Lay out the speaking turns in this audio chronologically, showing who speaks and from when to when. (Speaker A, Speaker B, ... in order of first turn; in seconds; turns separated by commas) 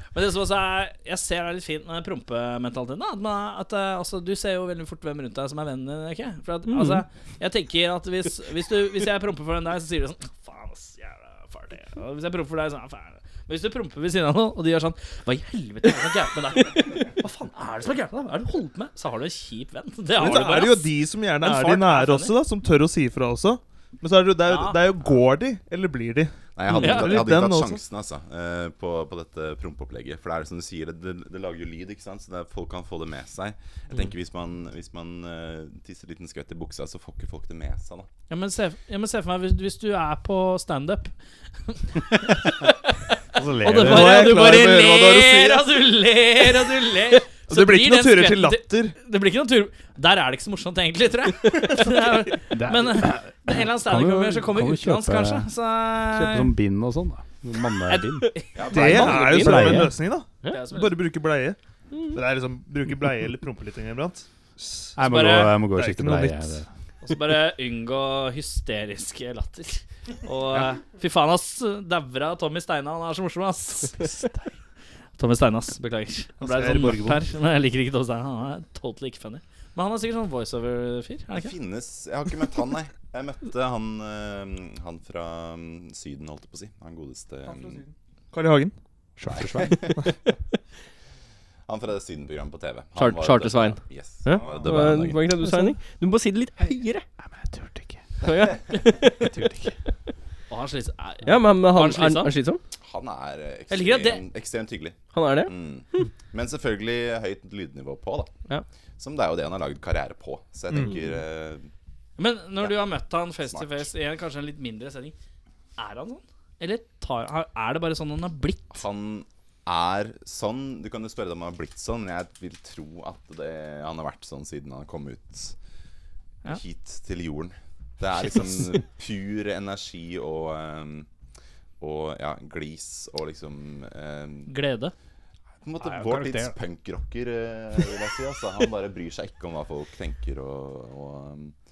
Speaker A: 0.1-22.3, Speaker B: 6.7-7.0, Speaker C: 20.1-27.8, Speaker A: 24.5-24.8, Speaker D: 26.5-38.1, Speaker A: 26.8-27.1, Speaker A: 38.3-41.1, Speaker A: 41.7-42.7, Speaker E: 43.3-44.4, Speaker A: 43.6-56.5, Speaker C: 43.7-45.8, Speaker C: 47.5-49.0, Speaker E: 52.5-55.5, Speaker E: 56.1-60.0, Speaker A: 57.9-59.5, Speaker D: 58.5-59.4, Speaker C: 58.7-61.6, Speaker B: 58.8-59.8, Speaker A: 60.5-61.0, Speaker B: 61.9-62.2, Speaker C: 62.1-65.0, Speaker E: 65.0-66.7, Speaker A: 65.0-65.6, Speaker C: 65.7-66.6, Speaker A: 67.0-74.2, Speaker A: 75.2-81.5, Speaker C: 76.4-77.2, Speaker D: 81.3-87.8, Speaker C: 87.4-88.7, Speaker E: 89.2-89.8, Speaker D: 89.4-90.0, Speaker D: 91.7-95.3, Speaker B: 93.0-97.0, Speaker C: 94.3-94.7, Speaker E: 95.4-95.8, Speaker E: 97.2-98.0, Speaker B: 98.2-99.4, Speaker D: 98.2-98.5, Speaker E: 99.2-99.8, Speaker A: 100.5-102.3, Speaker B: 101.2-102.6, Speaker D: 102.8-108.3, Speaker A: 103.7-104.2, Speaker B: 105.1-106.1, Speaker D: 109.0-111.7, Speaker A: 112.2-115.1, Speaker D: 112.6-113.9, Speaker A: 115.8-118.8, Speaker D: 118.7-125.5, Speaker D: 126.4-131.1, Speaker D: 131.8-134.5, Speaker A: 134.5-134.9, Speaker D: 135.6-141.5, Speaker E: 136.0-136.4